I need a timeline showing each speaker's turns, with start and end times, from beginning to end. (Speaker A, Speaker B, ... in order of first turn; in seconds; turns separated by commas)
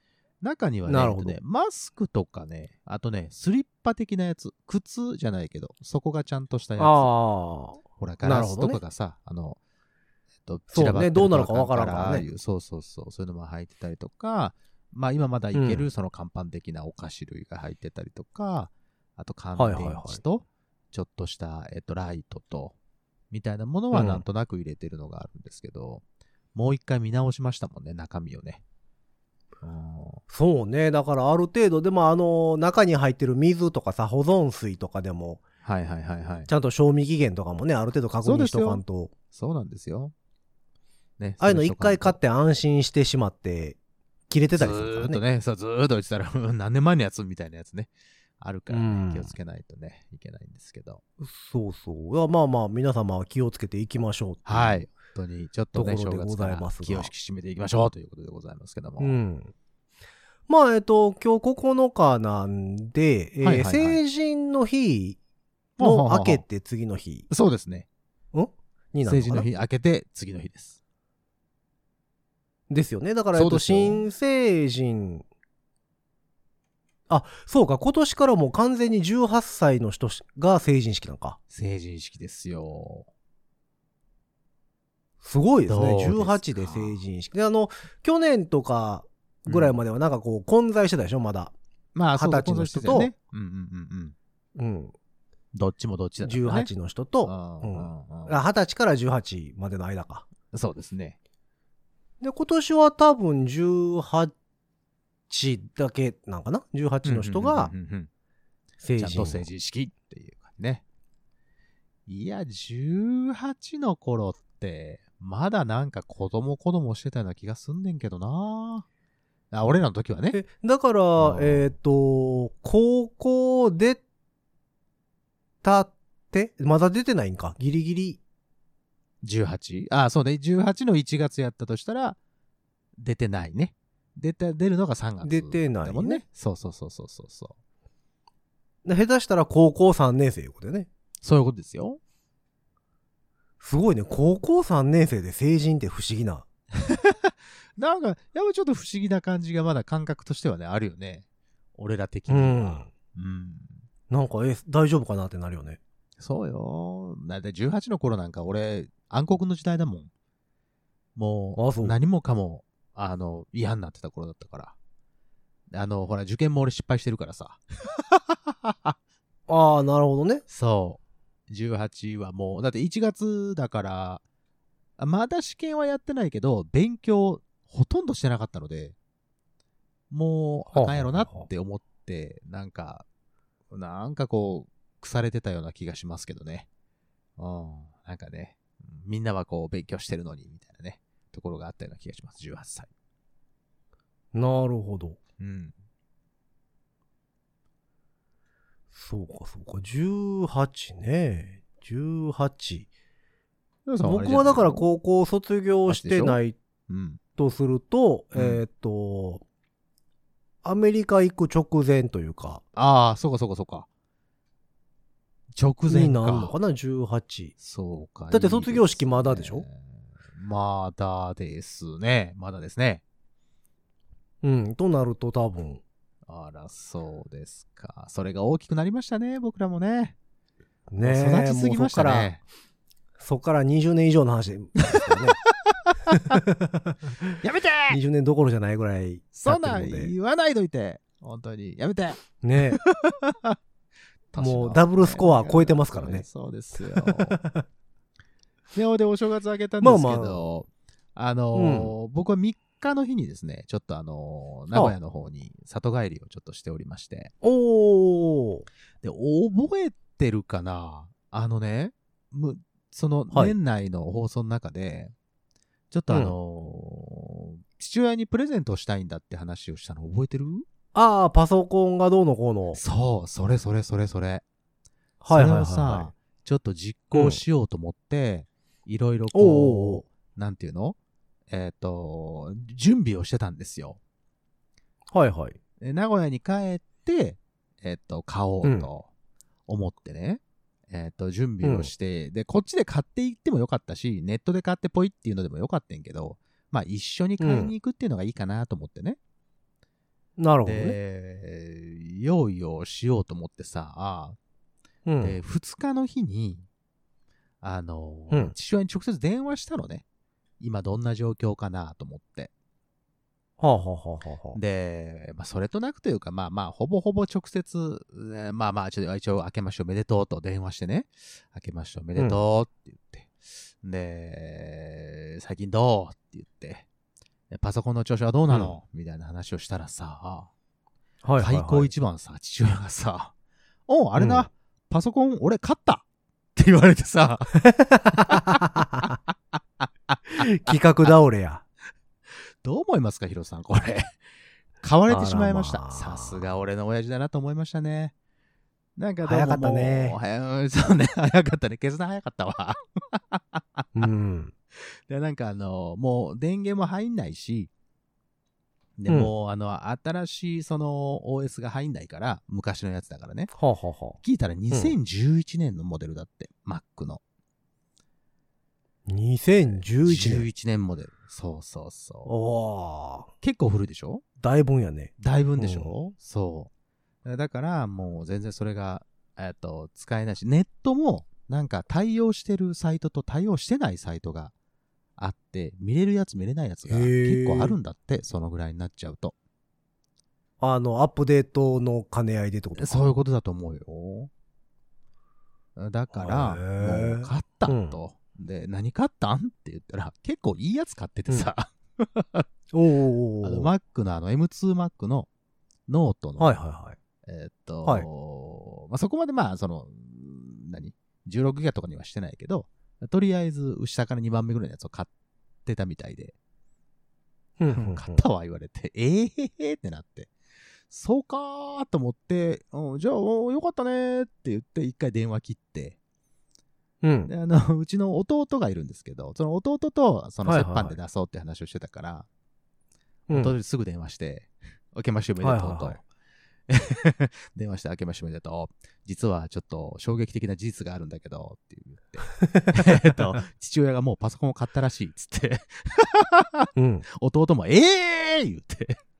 Speaker A: 0.4-7.1, Speaker B: 0.9-1.4, Speaker B: 6.8-8.8, Speaker A: 8.0-9.6, Speaker A: 10.4-22.7, Speaker B: 10.7-12.2, Speaker B: 15.5-15.9, Speaker B: 19.6-20.2, Speaker A: 23.3-26.0, Speaker B: 23.9-24.2, Speaker A: 26.5-28.6, Speaker A: 29.6-30.2, Speaker B: 30.3-35.4, Speaker A: 35.6-36.5, Speaker B: 36.5-39.1, Speaker A: 38.2-40.1, Speaker A: 41.2-42.2, Speaker B: 41.4-43.8, Speaker B: 44.3-45.2, Speaker A: 44.6-51.0, Speaker B: 48.7-49.3, Speaker B: 51.2-54.9, Speaker A: 54.5-59.2, Speaker B: 55.7-57.1, Speaker B: 59.0-59.5, Speaker B: 60.5-65.2, Speaker A: 63.4-64.0, Speaker A: 65.8-66.4, Speaker B: 65.8-67.3, Speaker A: 67.3-67.8, Speaker B: 68.3-69.5, Speaker A: 69.0-70.8, Speaker B: 72.7-75.2, Speaker A: 73.3-74.0, Speaker B: 77.1-81.4, Speaker A: 81.5-83.1, Speaker B: 85.2-91.5, Speaker A: 85.7-87.0, Speaker A: 89.5-89.8, Speaker A: 91.9-94.1, Speaker B: 92.1-93.1, Speaker B: 94.6-94.9, Speaker A: 95.5-96.7, Speaker B: 96.2-100.2, Speaker A: 97.2-98.4, Speaker A: 100.5-101.2, Speaker B: 102.2-104.3, Speaker B: 105.3-107.7, Speaker A: 107.0-108.1, Speaker B: 108.8-109.5, Speaker A: 109.0-110.8, Speaker A: 112.1-118.8, Speaker A: 119.5-120.4, Speaker B: 120.3-124.0, Speaker A: 121.2-121.7, Speaker B: 125.6-128.2, Speaker A: 129.2-132.2, Speaker A: 133.0-137.5, Speaker B: 135.2-136.2, Speaker B: 138.8-140.9, Speaker A: 141.2-142.0, Speaker B: 143.6-146.5, Speaker A: 146.8-151.2, Speaker A: 151.8-153.8, Speaker B: 152.3-152.9, Speaker B: 154.1-155.8, Speaker A: 156.2-160.1, Speaker A: 161.2-164.7, Speaker B: 161.6-162.0, Speaker A: 165.7-168.9, Speaker B: 169.5-170.4, Speaker A: 170.5-174.2, Speaker A: 175.0-178.9, Speaker A: 180.1-183.0, Speaker B: 180.7-181.5, Speaker A: 183.7-186.7, Speaker A: 187.4-192.9, Speaker B: 194.3-195.2, Speaker A: 195.4-195.7, Speaker B: 198.9-202.9, Speaker A: 203.8-204.9, Speaker B: 204.0-206.6, Speaker A: 205.9-207.2, Speaker B: 207.4-209.4, Speaker A: 208.3-208.6, Speaker B: 210.6-212.6, Speaker A: 212.7-213.9, Speaker A: 215.5-216.5, Speaker B: 215.9-217.5, Speaker A: 217.6-223.0, Speaker B: 218.3-219.7, Speaker B: 224.4-225.8, Speaker A: 226.3-230.2, Speaker B: 230.9-232.3, Speaker A: 231.0-232.4, Speaker B: 233.2-235.4, Speaker A: 235.1-236.4, Speaker B: 236.1-237.3, Speaker A: 237.4-238.0, Speaker B: 237.9-240.1, Speaker A: 239.3-243.6, Speaker B: 242.4-242.8, Speaker A: 244.3-247.4, Speaker B: 244.4-246.2, Speaker B: 246.8-247.6, Speaker A: 248.7-257.3, Speaker B: 249.8-250.5, Speaker B: 251.5-251.9, Speaker B: 257.4-258.7, Speaker A: 259.0-265.1, Speaker B: 263.3-263.6, Speaker A: 265.9-270.6, Speaker B: 266.1-266.3, Speaker B: 270.9-272.8, Speaker A: 272.7-274.4, Speaker B: 275.2-276.1, Speaker A: 275.3-281.0, Speaker B: 277.1-277.4, Speaker B: 279.3-280.1, Speaker A: 281.5-284.0, Speaker B: 285.1-285.6, Speaker A: 285.8-289.1, Speaker B: 288.6-288.9, Speaker A: 289.7-299.2, Speaker B: 291.6-291.9, Speaker B: 297.4-297.7, Speaker B: 300.4-301.0, Speaker A: 300.6-304.4, Speaker B: 305.1-305.4, Speaker A: 305.2-306.6, Speaker A: 307.6-310.0, Speaker A: 310.6-312.5, Speaker B: 313.6-314.6, Speaker A: 314.5-326.9, Speaker B: 322.1-322.4, Speaker A: 327.5-330.5, Speaker B: 328.5-328.7, Speaker B: 331.2-331.9, Speaker A: 331.4-333.3, Speaker A: 333.9-336.0, Speaker B: 334.2-334.5, Speaker A: 336.6-337.6, Speaker B: 337.5-339.2, Speaker A: 338.1-341.1, Speaker B: 340.3-341.6, Speaker A: 342.6-344.1, Speaker A: 344.8-348.1, Speaker B: 345.1-346.4, Speaker A: 349.0-354.1, Speaker B: 349.2-350.2, Speaker B: 353.9-354.5, Speaker A: 354.7-357.7, Speaker A: 359.0-363.5, Speaker B: 359.1-359.3, Speaker B: 363.5-364.2, Speaker A: 364.2-367.2, Speaker B: 364.7-364.9, Speaker B: 369.1-370.4, Speaker A: 369.7-372.3, Speaker B: 372.2-373.3, Speaker A: 373.4-374.2, Speaker B: 374.4-375.9, Speaker A: 375.2-376.7, Speaker A: 377.2-384.5, Speaker A: 385.2-389.3, Speaker B: 386.9-387.8, Speaker B: 390.6-393.1, Speaker A: 392.8-394.3, Speaker A: 395.8-402.5, Speaker B: 396.1-397.9, Speaker B: 402.7-403.7, Speaker A: 403.4-405.3, Speaker A: 405.9-406.5, Speaker B: 406.4-407.0, Speaker A: 407.2-415.1, Speaker A: 415.6-416.3, Speaker B: 417.6-418.2, Speaker A: 417.7-420.3, Speaker A: 420.9-426.0, Speaker B: 427.0-427.3, Speaker A: 427.3-432.3, Speaker B: 430.4-431.0, Speaker B: 433.3-433.6, Speaker A: 433.3-436.0, Speaker B: 435.4-436.0, Speaker A: 436.7-449.0, Speaker B: 442.4-443.4, Speaker B: 446.8-447.0